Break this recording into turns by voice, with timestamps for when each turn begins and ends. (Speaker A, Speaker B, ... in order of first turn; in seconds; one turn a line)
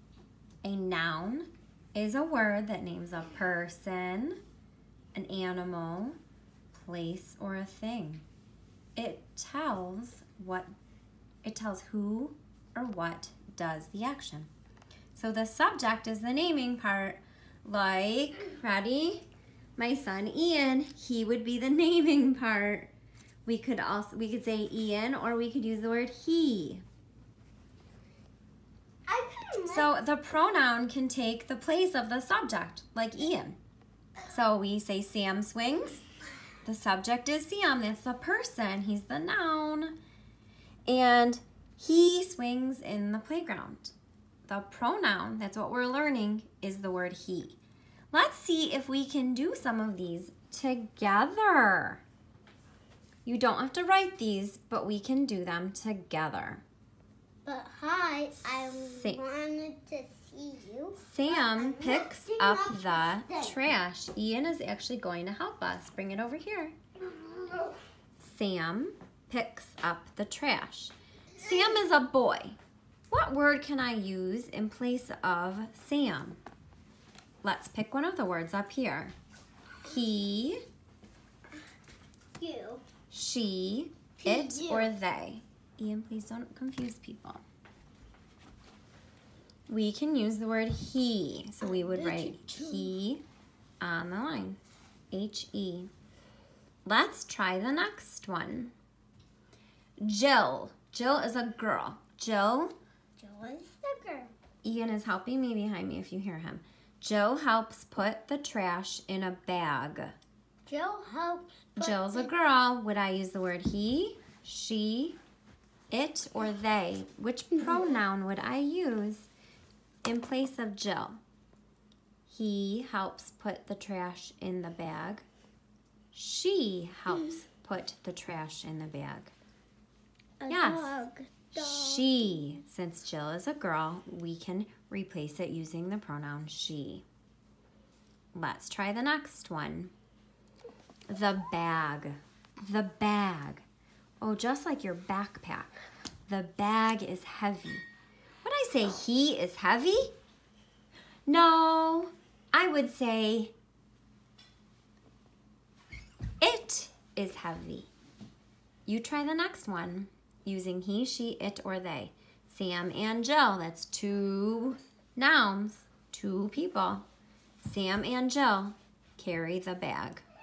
Speaker A: 0.6-4.4
Speaker A: 5.1-6.2
Speaker A: 6.7-8.2
Speaker A: 9.0-10.7
Speaker A: 11.4-14.5
Speaker A: 15.1-19.2
Speaker A: 19.8-22.9
Speaker A: 23.4-26.8
Speaker B: 29.1-29.9
Speaker A: 29.7-33.6
Speaker A: 34.3-36.1
Speaker A: 36.6-40.0
Speaker A: 40.9-44.0
Speaker A: 44.5-47.6
Speaker A: 48.1-52.0
Speaker A: 53.2-56.6
Speaker B: 57.5-63.6
Speaker A: 58.8-59.2
Speaker A: 61.0-66.7
Speaker B: 67.0-67.8
Speaker A: 68.2-72.6
Speaker A: 73.1-76.4
Speaker A: 77.4-79.2
Speaker A: 79.8-80.6
Speaker B: 82.4-82.8
Speaker A: 83.1-87.4
Speaker B: 84.2-84.9
Speaker A: 89.7-93.2
Speaker B: 91.6-92.9
Speaker A: 93.8-94.6
Speaker A: 95.1-95.9
Speaker A: 96.8-98.7
Speaker A: 100.0-102.7
Speaker B: 103.2-104.3
Speaker A: 104.6-110.1
Speaker B: 110.7-112.3
Speaker A: 111.8-115.2
Speaker A: 115.9-119.3
Speaker B: 117.7-117.9
Speaker A: 120.0-121.2
Speaker A: 122.3-125.2
Speaker A: 126.1-129.3
Speaker B: 130.4-132.1
Speaker A: 130.5-137.1
Speaker A: 138.3-139.9
Speaker A: 141.1-143.6
Speaker A: 144.2-145.7
Speaker A: 146.3-147.8
Speaker A: 148.4-150.1
Speaker A: 151.3-153.5
Speaker A: 156.4-157.9
Speaker A: 158.9-167.1
Speaker A: 167.6-170.2